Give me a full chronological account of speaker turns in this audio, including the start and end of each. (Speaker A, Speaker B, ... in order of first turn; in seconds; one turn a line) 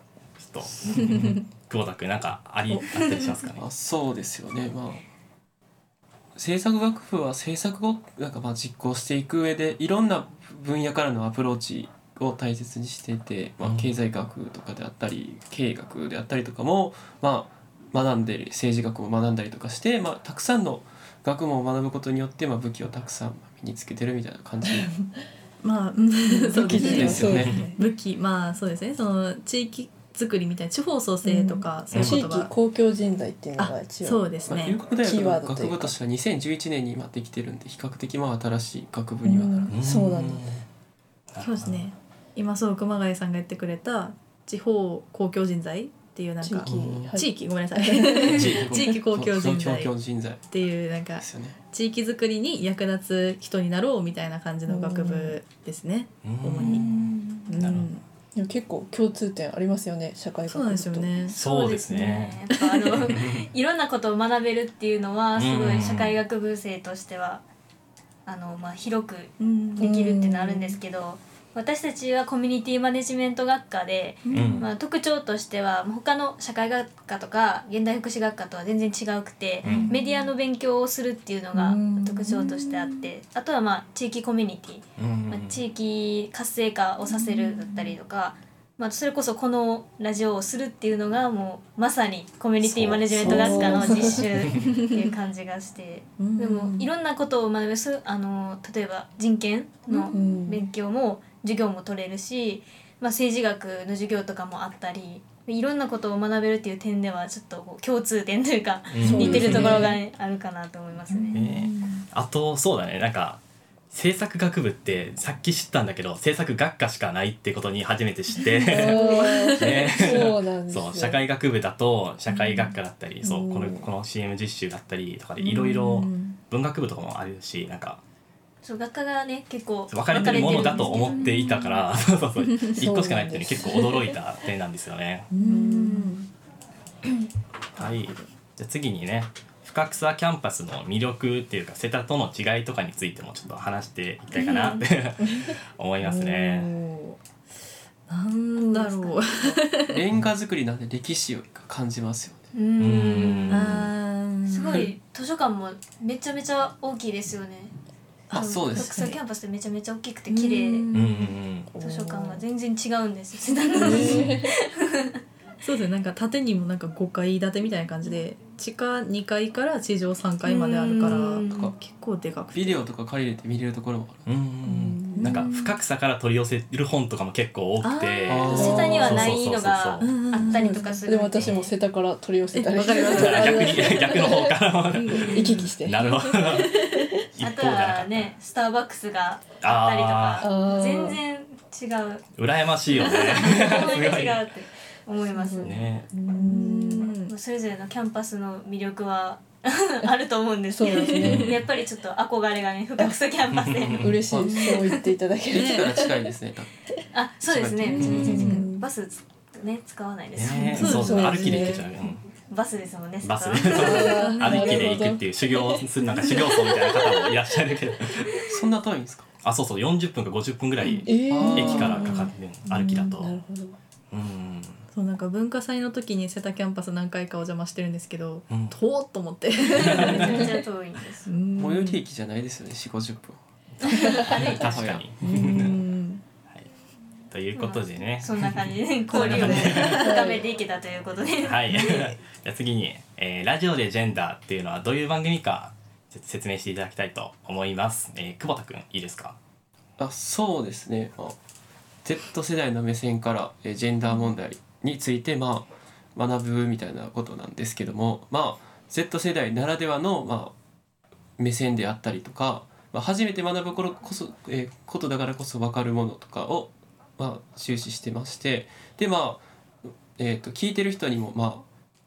Speaker A: 0.4-3.6
Speaker B: 1.1-1.4
Speaker B: 2.7-3.4
Speaker C: 3.6-5.0
Speaker C: 6.4-24.9
Speaker A: 13.6-13.9
Speaker B: 25.6-32.5
Speaker D: 26.3-27.9
Speaker C: 26.7-27.7
Speaker A: 26.9-27.6
Speaker D: 31.2-36.0
Speaker A: 31.9-32.2
Speaker B: 33.6-34.8
Speaker C: 34.5-39.8
Speaker D: 39.2-40.5
Speaker A: 39.7-40.7
Speaker A: 41.3-41.9
Speaker B: 41.4-50.0
Speaker D: 46.4-48.9
Speaker A: 46.6-47.1
Speaker A: 48.3-48.8
Speaker C: 48.4-51.6
Speaker B: 50.5-58.0
Speaker D: 54.7-55.4
Speaker A: 56.2-57.9
Speaker D: 56.5-57.1
Speaker D: 58.3-61.2
Speaker B: 60.5-61.4
Speaker E: 61.3-67.4
Speaker A: 61.4-62.4
Speaker B: 62.5-63.1
Speaker A: 63.1-63.5
Speaker A: 65.4-66.2
Speaker E: 68.3-111.4
Speaker B: 69.4-70.2
Speaker D: 69.8-70.8
Speaker B: 74.3-74.6
Speaker A: 74.3-74.7
Speaker A: 79.6-79.9
Speaker D: 81.6-82.4
Speaker B: 81.8-83.0
Speaker A: 85.0-85.7
Speaker B: 87.2-87.9
Speaker A: 92.6-94.3
Speaker D: 93.2-94.2
Speaker B: 93.3-94.2
Speaker B: 96.2-96.9
Speaker B: 99.9-100.4
Speaker D: 100.1-100.7
Speaker A: 108.9-109.8
Speaker D: 109.0-110.0
Speaker B: 109.2-109.8
Speaker B: 111.2-112.0
Speaker A: 111.3-128.0
Speaker B: 118.6-119.8
Speaker D: 118.7-121.2
Speaker B: 122.3-122.7
Speaker D: 123.2-123.9
Speaker B: 125.4-126.4
Speaker E: 128.6-131.3
Speaker A: 129.9-135.3
Speaker B: 130.4-131.8
Speaker D: 132.8-133.8
Speaker B: 135.3-136.3
Speaker D: 135.4-136.1
Speaker A: 137.8-146.7
Speaker B: 144.5-144.8
Speaker B: 146.0-147.2
Speaker B: 148.1-150.0
Speaker D: 148.6-149.6
Speaker C: 149.9-152.4
Speaker E: 152.5-153.7
Speaker A: 152.8-153.9
Speaker B: 153.5-154.9
Speaker E: 154.5-157.8
Speaker B: 158.3-159.2
Speaker C: 158.3-159.2
Speaker E: 158.3-160.8
Speaker B: 160.3-161.3
Speaker A: 160.9-161.7
Speaker D: 161.7-162.4
Speaker E: 161.8-165.2
Speaker D: 163.8-164.5
Speaker B: 163.8-164.4
Speaker B: 165.6-172.9
Speaker E: 170.4-171.7
Speaker C: 170.9-171.7
Speaker C: 172.5-174.3
Speaker A: 174.3-180.1
Speaker D: 174.7-175.5
Speaker B: 175.1-175.8
Speaker B: 177.8-179.2
Speaker C: 178.3-179.3
Speaker E: 178.3-181.7
Speaker B: 180.0-181.3
Speaker D: 180.5-184.6
Speaker B: 182.5-184.3
Speaker A: 183.1-186.7
Speaker B: 184.9-185.6
Speaker D: 185.1-186.4
Speaker B: 186.3-187.0
Speaker A: 187.3-188.3
Speaker E: 187.4-192.2
Speaker A: 189.6-190.5
Speaker D: 190.4-191.2
Speaker A: 192.4-194.5
Speaker E: 193.0-195.8
Speaker D: 195.3-197.1
Speaker A: 195.6-196.1
Speaker B: 196.3-197.3
Speaker E: 197.3-205.0
Speaker D: 200.7-201.6
Speaker B: 200.9-201.5
Speaker A: 201.2-201.6
Speaker A: 203.5-204.1
Speaker D: 204.0-206.3
Speaker C: 204.3-204.6
Speaker B: 204.4-204.8
Speaker C: 205.5-206.7
Speaker B: 205.5-205.9
Speaker E: 207.1-211.1
Speaker C: 207.4-208.5
Speaker B: 207.9-208.7
Speaker D: 208.1-208.8
Speaker A: 210.4-212.2
Speaker B: 210.5-211.9
Speaker D: 210.8-211.8
Speaker E: 212.5-214.2
Speaker A: 213.2-218.4
Speaker D: 213.7-215.2
Speaker B: 213.9-215.2
Speaker C: 218.5-219.3
Speaker A: 219.4-223.3
Speaker D: 221.1-223.8
Speaker C: 221.3-222.2
Speaker A: 224.1-224.8
Speaker B: 224.9-230.6
Speaker A: 228.5-228.8
Speaker E: 229.8-231.3
Speaker B: 231.3-232.0
Speaker C: 231.6-233.4
Speaker A: 233.8-235.8
Speaker C: 234.0-235.1
Speaker E: 234.3-234.6
Speaker B: 235.2-236.2
Speaker A: 237.3-240.1
Speaker E: 237.6-242.1
Speaker B: 239.3-239.9
Speaker D: 239.3-240.4
Speaker A: 241.4-249.4
Speaker C: 250.0-251.4
Speaker C: 252.0-260.6
Speaker C: 261.4-271.7